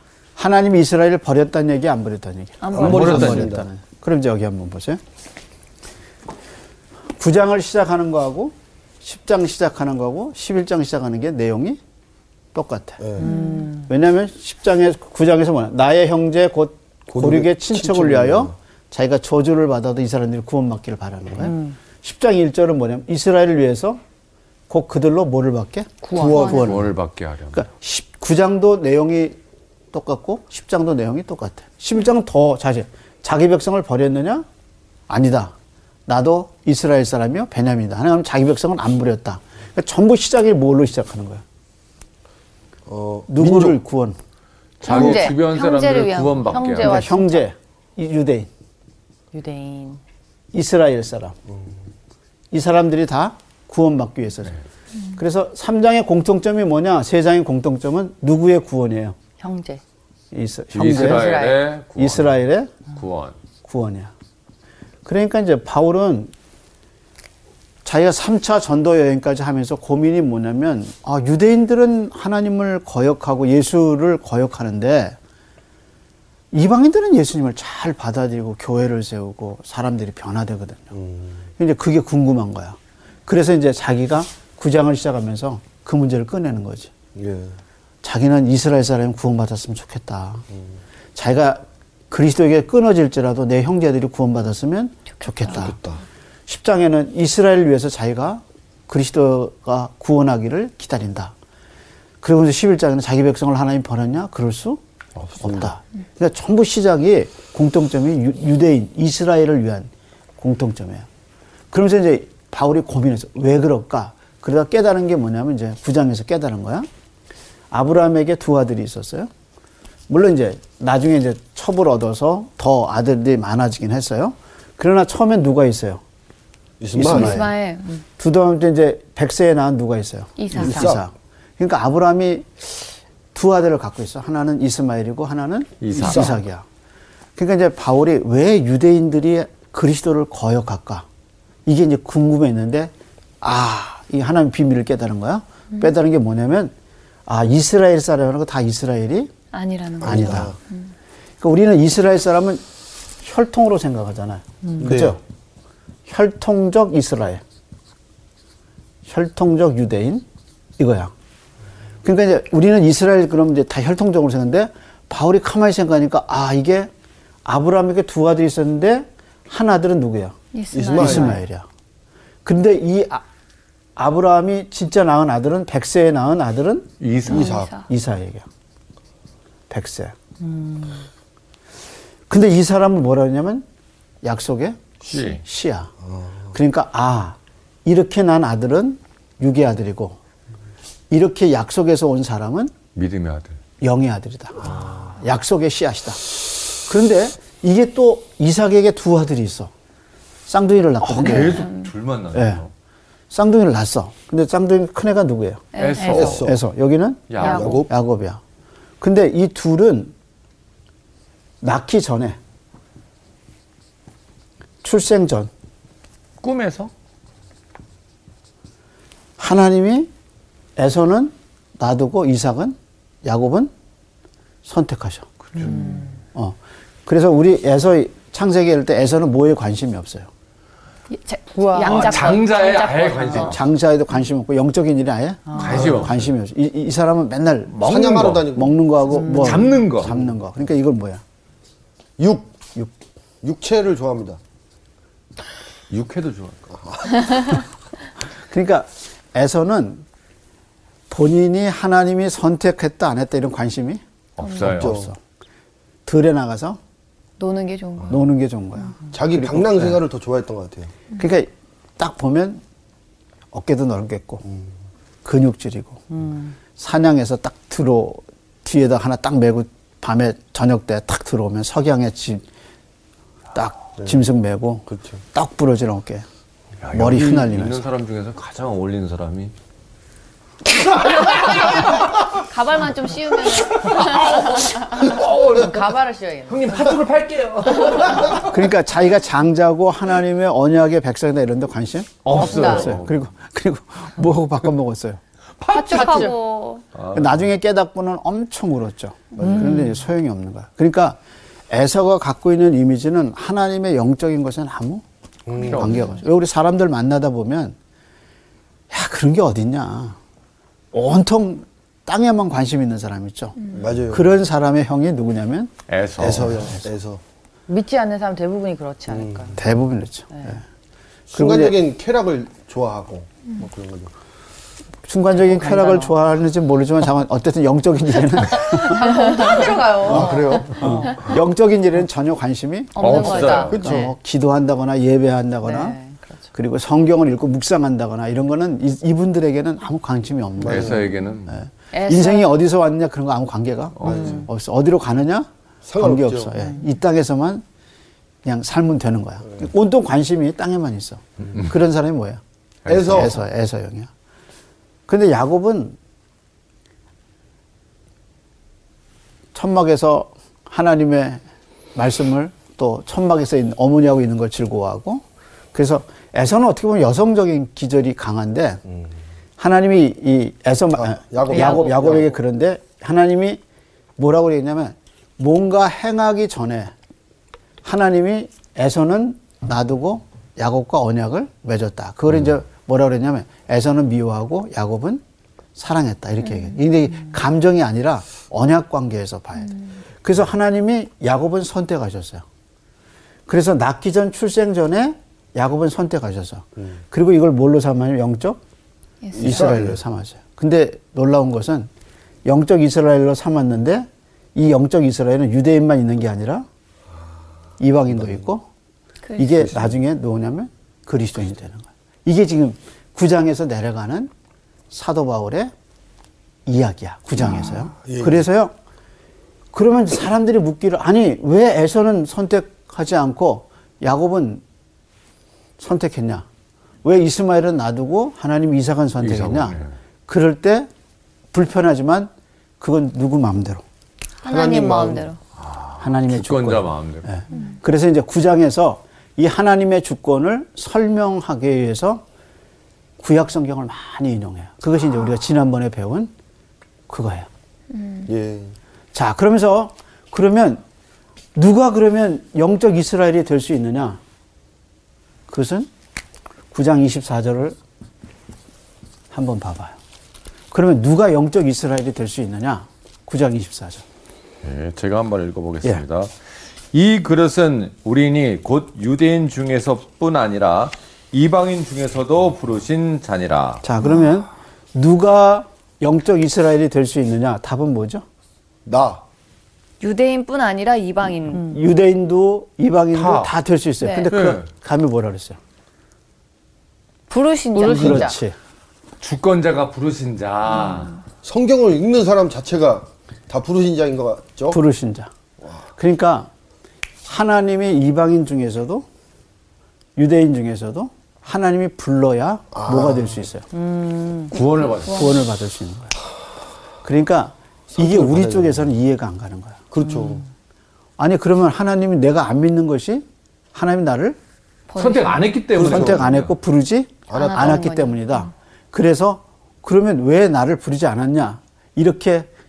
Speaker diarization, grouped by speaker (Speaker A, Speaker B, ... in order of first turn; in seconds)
Speaker A: 0.4-5.0, 7.2-11.8, 12.5-13.0, 13.9-24.0, 24.7-26.9, 27.5-29.4, 29.9-34.5, 35.1-35.5, 36.1-41.4, 43.3-44.2, 46.8-48.5, 50.5-51.4, 52.5-54.5, 55.2-59.2, 60.3-62.7, 63.6-64.1, 65.0-66.3, 67.8-75.2, 76.5-81.0, 81.6-86.9, 88.0-90.5, 91.2-95.8, 96.5-101.3, 102.2-104.8, 105.4-111.1, 111.7-116.9, 117.7-119.3, 120.1-126.0, 126.9-127.5, 128.2-136.7, 137.4-141.1, 141.7-146.7, 147.3-149.3, 150.0-150.5, 151.4-152.6, 153.2-155.2, 156.1-157.4, 159.1-160.2, 160.8-161.1, 162.0-166.9, 167.4-170.4, 170.9-171.7, 172.4-173.2, 174.0-176.9, 177.8-178.5, 179.7-180.2, 182.3-183.7, 184.2-185.9, 186.5-190.2, 191.1-192.7, 193.8-199.7, 200.5-201.7, 202.3-202.6, 203.3-208.4, 209.0-210.1, 211.6-212.4, 214.8-215.5, 219.4-220.1, 220.8-223.7, 224.7-225.3, 226.3-230.3, 233.4-241.2, 248.5-250.1, 251.1-254.0, 254.7-255.2, 256.1-256.8, 258.1-260.0, 261.2-262.6, 263.5-264.4, 265.2-266.0, 266.8-272.5, 273.5-276.3, 276.9-277.8, 288.4-295.2, 297.1-301.2, 301.7-305.0, 305.7-307.8, 308.9-310.2, 310.9-315.7, 316.4-316.8, 319.6-320.6, 321.3-321.8, 325.1-329.3, 330.1-336.0, 336.5-347.6, 348.4-354.1, 355.1-356.0, 359.5-361.4, 361.9-368.8, 369.6-373.6, 374.2-376.9, 377.8-385.2, 385.8-392.4, 393.5-398.6, 399.4-401.9, 402.4-406.7, 407.8-408.7, 409.4-414.3, 414.9-415.7, 416.7-418.7, 419.7-424.6, 425.8-426.5, 427.0-430.9, 431.5-433.8, 436.0-442.2, 443.2-446.3, 447.1-447.5, 449.1-450.8, 451.6-454.2, 455.5-455.9, 456.7-457.8, 459.3-460.0, 460.7-464.0, 473.8-478.2, 481.6-485.6, 487.8-488.6, 494.7-495.3, 496.0-496.5, 497.2-499.1, 500.2-503.7, 505.1-506.1, 507.0-509.8, 511.2-514.4, 515.8-522.5
Speaker B: 2.6-3.0, 13.2-13.7, 26.3-26.6, 44.9-47.4, 95.2-95.5, 127.0-128.0, 130.4-130.9, 149.5-150.9, 170.5-171.4, 177.3-177.9, 201.5-201.9, 205.7-206.4, 207.4-207.8, 231.1-233.5, 257.4-258.2, 282.4-284.7, 295.7-296.8, 329.1-329.7, 333.0-333.8, 341.9-342.5, 399.2-399.6, 409.2-409.7, 434.4-435.4, 437.5-437.8, 447.9-448.3, 480.0-481.7, 484.0-484.3, 487.3-488.3, 504.9-505.3, 514.9-515.6, 517.3-518.5
Speaker C: 2.7-3.7, 13.0-13.3, 17.1-18.5, 26.2-26.9, 42.9-43.8, 44.9-45.3, 80.9-81.4, 87.2-87.6, 95.5-96.0, 105.2-105.7, 126.8-127.5, 130.6-131.0, 150.0-150.6, 154.8-155.2, 170.7-171.4, 177.3-177.7, 186.0-186.5, 206.1-206.6, 207.4-207.9, 237.8-238.8, 242.2-242.6, 243.4-244.4, 246.8-247.6, 254.7-255.1, 259.1-260.9, 274.9-275.2, 299.4-299.8, 305.5-306.0, 313.7-314.3, 316.2-317.2, 319.1-319.6, 321.3-324.1, 330.0-331.0, 333.7-334.1, 340.6-341.1, 344.0-344.5, 345.9-346.5, 352.9-353.4, 370.9-372.3, 399.4-400.0, 418.0-418.4, 434.4-435.3, 448.3-448.8, 478.9-479.2, 491.4-494.8, 502.7-503.5, 507.9-508.8, 509.9-510.4, 515.8-516.3, 517.3-517.9
Speaker D: 2.8-3.5, 26.5-27.6, 44.8-47.0, 60.7-62.4, 62.9-63.4, 135.8-136.3, 177.0-177.6, 185.1-185.4, 192.9-193.6, 201.0-202.7, 205.8-206.5, 207.3-207.8, 216.4-216.9, 225.6-225.9, 231.8-233.6, 235.6-236.3, 237.7-238.5, 239.2-240.1, 245.9-246.6, 254.4-254.9, 276.8-279.5, 280.8-282.3, 283.5-285.8, 286.5-288.5, 292.2-293.2, 295.6-296.3, 296.9-297.4, 305.6-306.0, 315.9-316.7, 333.0-333.9, 340.6-341.6, 344.0-344.3, 352.9-353.2, 429.2-429.9, 435.6-437.4, 464.6-466.3, 466.9-473.8, 483.1-483.5, 484.3-484.7, 489.2-491.2, 504.5-505.3, 515.0-516.5
Speaker E: 13.2-13.8, 21.5-21.8, 26.1-26.4, 44.9-45.4, 46.5-47.2, 49.3-50.0, 59.4-59.8, 60.9-61.7, 225.6-226.0, 231.6-232.4, 235.5-235.9, 239.3-239.7, 266.1-266.5, 285.1-286.8, 292.4-292.9, 295.9-296.3, 317.7-319.6, 325.4-326.1, 328.7-331.2, 333.1-334.1, 335.6-336.5, 344.1-344.5, 487.8-488.4, 503.7-504.5